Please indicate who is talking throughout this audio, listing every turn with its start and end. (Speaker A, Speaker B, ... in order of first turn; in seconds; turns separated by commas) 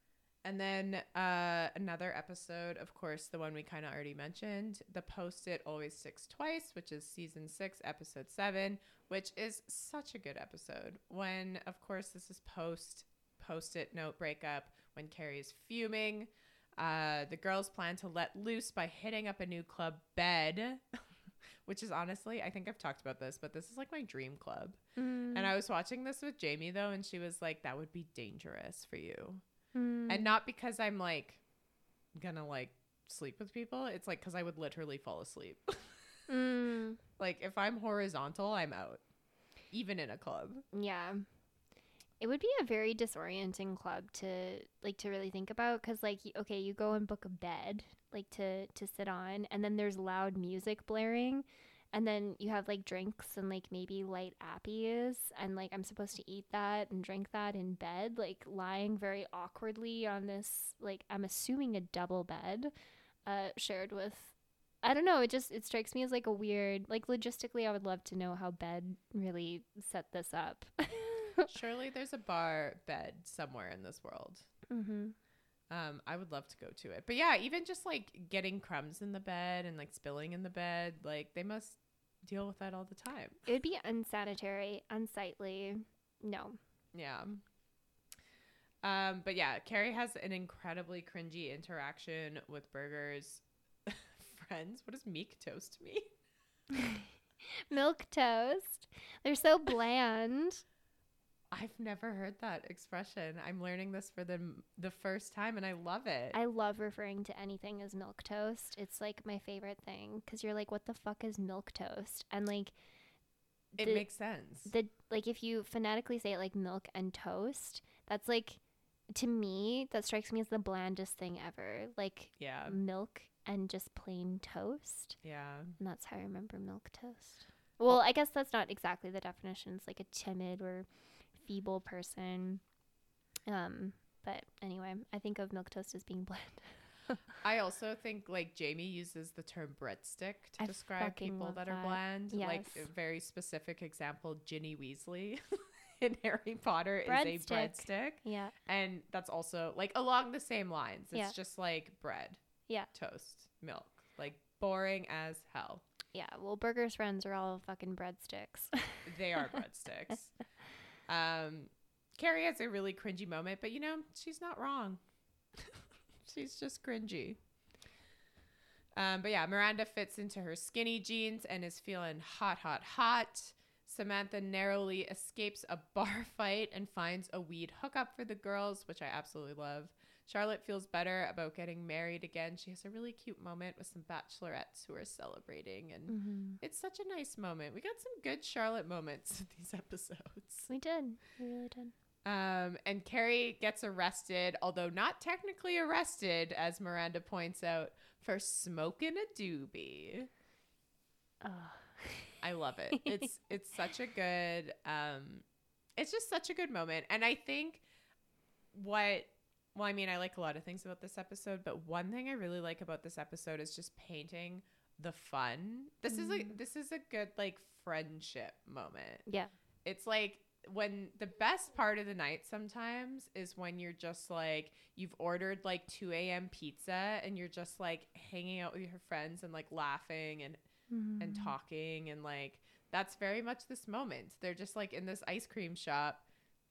Speaker A: 0.4-21.0, Speaker A: 21.6-24.8, Speaker B: 24.9-25.5, Speaker A: 25.3-29.4, Speaker B: 29.7-30.3, Speaker A: 30.1-31.4, Speaker A: 32.1-36.0, Speaker B: 36.3-37.0, Speaker A: 37.2-39.0, Speaker A: 39.7-40.6, Speaker B: 40.7-41.2, Speaker B: 42.2-62.7, Speaker B: 63.2-71.5, Speaker A: 71.5-74.5, Speaker B: 74.7-75.1, Speaker A: 75.7-83.4, Speaker B: 83.5-86.6, Speaker A: 86.9-87.4, Speaker A: 88.8-96.1, Speaker B: 96.7-100.6, Speaker A: 101.5-106.4, Speaker B: 106.3-112.7, Speaker B: 113.8-114.1, Speaker A: 113.8-114.7, Speaker B: 114.6-125.2, Speaker A: 122.4-122.8, Speaker A: 125.2-125.8, Speaker B: 125.8-132.6, Speaker B: 133.5-137.2, Speaker A: 137.4-155.8, Speaker B: 140.6-142.9, Speaker B: 147.0-148.6, Speaker B: 156.1-159.1, Speaker A: 159.1-160.3, Speaker A: 161.1-165.0, Speaker A: 165.6-167.4, Speaker A: 168.9-190.7, Speaker B: 186.1-186.6, Speaker B: 190.7-191.9, Speaker A: 192.2-200.3, Speaker B: 201.4-202.4, Speaker A: 202.4-205.4, Speaker A: 206.0-207.8, Speaker A: 208.7-219.2, Speaker B: 216.1-216.5, Speaker B: 219.3-219.5, Speaker A: 219.8-230.6, Speaker B: 230.9-231.5, Speaker A: 231.2-236.2